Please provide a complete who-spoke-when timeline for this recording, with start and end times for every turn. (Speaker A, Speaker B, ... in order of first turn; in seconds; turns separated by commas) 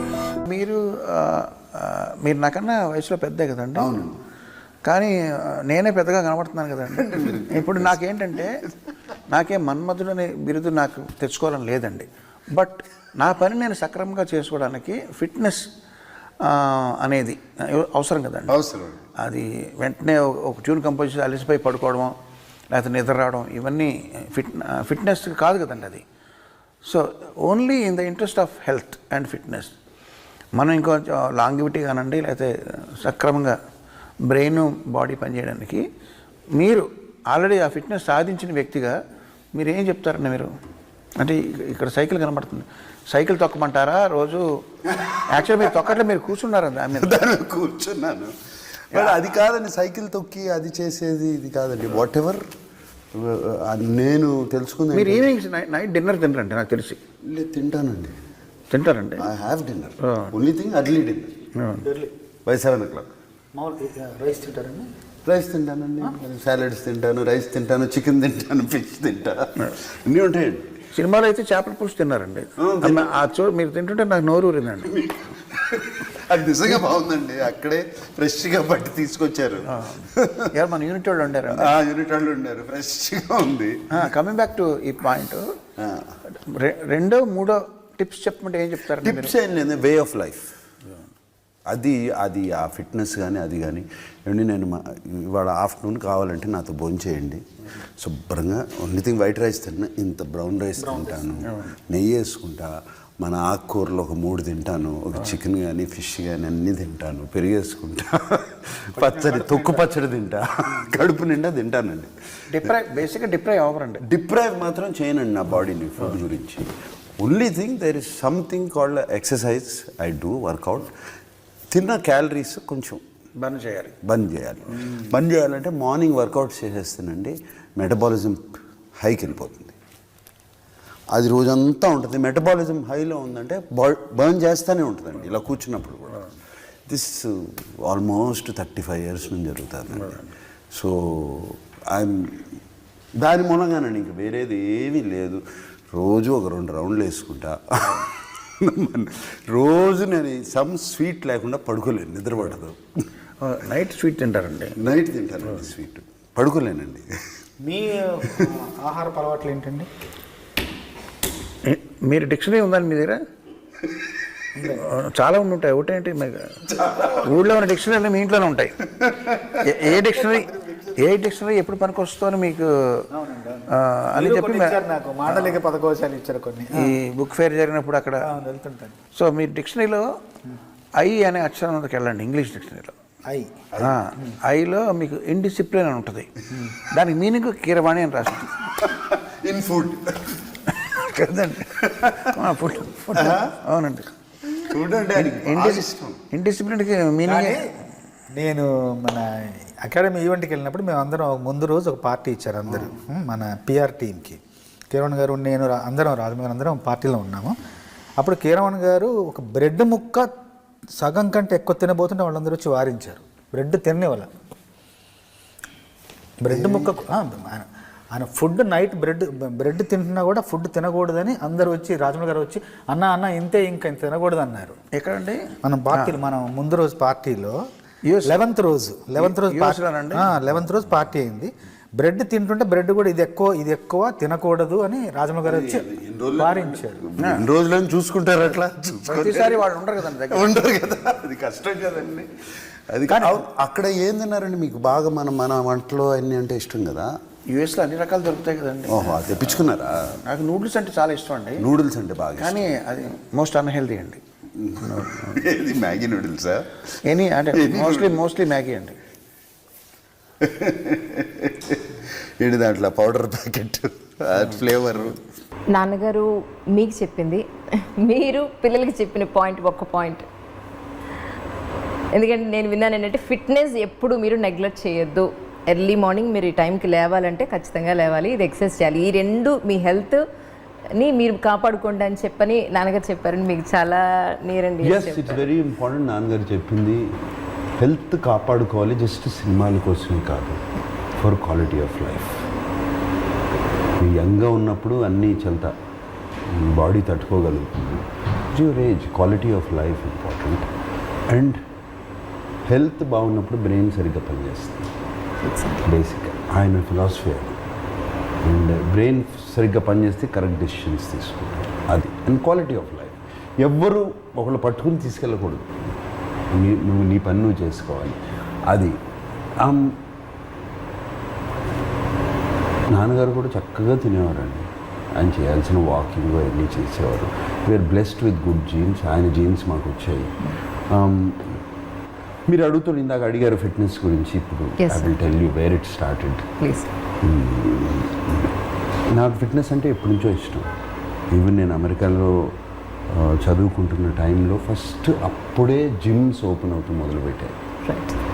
Speaker A: 0.5-4.0, Speaker B: 3.8-4.2, Speaker A: 4.8-8.6, Speaker B: 7.0-7.9, Speaker A: 9.3-15.7, Speaker A: 16.4-18.6, Speaker B: 18.5-19.1, Speaker A: 19.2-22.2, Speaker A: 22.7-26.0, Speaker A: 26.9-29.7, Speaker A: 30.6-33.6, Speaker A: 34.2-35.8, Speaker A: 36.5-39.0, Speaker A: 39.5-40.5, Speaker A: 41.2-44.6, Speaker A: 45.3-47.2, Speaker B: 46.9-48.3, Speaker B: 48.9-52.5, Speaker B: 53.1-55.3, Speaker A: 54.9-57.0, Speaker B: 57.3-58.2, Speaker A: 58.7-59.2, Speaker B: 59.2-61.4, Speaker A: 60.0-60.3, Speaker A: 61.6-61.9, Speaker C: 61.8-62.1, Speaker B: 62.5-63.1, Speaker C: 63.5-64.9, Speaker B: 65.2-70.8, Speaker A: 71.0-75.0, Speaker B: 72.6-73.1, Speaker B: 74.9-80.5, Speaker A: 79.7-81.8, Speaker B: 81.5-83.9, Speaker A: 83.9-85.5, Speaker B: 85.8-86.2, Speaker A: 86.3-89.3, Speaker B: 89.0-90.5, Speaker B: 91.7-97.4, Speaker B: 98.0-112.1, Speaker C: 100.8-101.2, Speaker C: 109.0-109.7, Speaker A: 112.5-114.0, Speaker B: 114.0-120.9, Speaker B: 121.7-123.0, Speaker A: 123.4-123.9, Speaker B: 124.0-129.8, Speaker B: 131.1-136.3, Speaker B: 136.9-142.5, Speaker B: 143.2-152.8, Speaker A: 153.4-154.8, Speaker B: 154.8-157.1, Speaker C: 157.6-159.9, Speaker A: 161.7-163.2, Speaker C: 164.6-164.8, Speaker A: 164.6-168.9, Speaker A: 169.4-173.1, Speaker C: 173.1-176.9, Speaker A: 173.7-175.6, Speaker A: 176.8-178.3, Speaker C: 178.2-179.0, Speaker A: 179.2-180.1, Speaker A: 181.0-182.9, Speaker C: 183.3-183.5, Speaker A: 183.8-188.7, Speaker B: 188.8-190.6, Speaker A: 190.7-194.1, Speaker B: 191.8-192.3, Speaker B: 193.1-193.5, Speaker B: 194.6-196.2, Speaker A: 195.2-197.7, Speaker C: 197.2-197.7, Speaker C: 198.3-204.4, Speaker C: 204.9-207.6, Speaker C: 208.2-210.3, Speaker C: 211.0-214.3, Speaker C: 216.4-224.8, Speaker A: 224.9-225.4, Speaker C: 225.6-227.6, Speaker A: 225.9-226.2, Speaker A: 228.1-228.5, Speaker C: 228.3-235.9, Speaker A: 229.2-230.3, Speaker B: 235.4-239.7, Speaker C: 236.4-237.0, Speaker A: 237.2-237.5, Speaker A: 239.1-240.6, Speaker B: 240.3-242.3, Speaker B: 242.9-247.2, Speaker A: 243.1-243.4, Speaker A: 247.5-249.7, Speaker B: 248.9-250.2, Speaker A: 250.2-251.7, Speaker B: 251.6-252.7, Speaker A: 252.4-254.2, Speaker B: 254.6-256.8, Speaker A: 254.8-255.4, Speaker A: 257.1-259.0, Speaker B: 257.5-258.2, Speaker B: 260.4-265.2, Speaker D: 265.7-267.4, Speaker D: 268.0-270.2, Speaker D: 272.1-280.2, Speaker D: 281.0-285.5, Speaker B: 284.8-287.0, Speaker B: 287.8-290.6, Speaker B: 291.2-292.5, Speaker B: 294.0-295.7, Speaker B: 296.5-300.7, Speaker B: 301.3-301.6, Speaker B: 302.7-304.9, Speaker D: 305.4-305.9, Speaker B: 305.9-307.6, Speaker B: 308.4-315.7, Speaker B: 316.5-318.9, Speaker B: 319.6-320.0, Speaker B: 322.9-331.6, Speaker B: 332.5-336.5, Speaker D: 334.8-335.1, Speaker D: 336.6-336.9, Speaker B: 337.2-338.5, Speaker B: 339.1-340.7, Speaker B: 341.3-342.6, Speaker B: 343.1-347.6, Speaker D: 347.9-348.2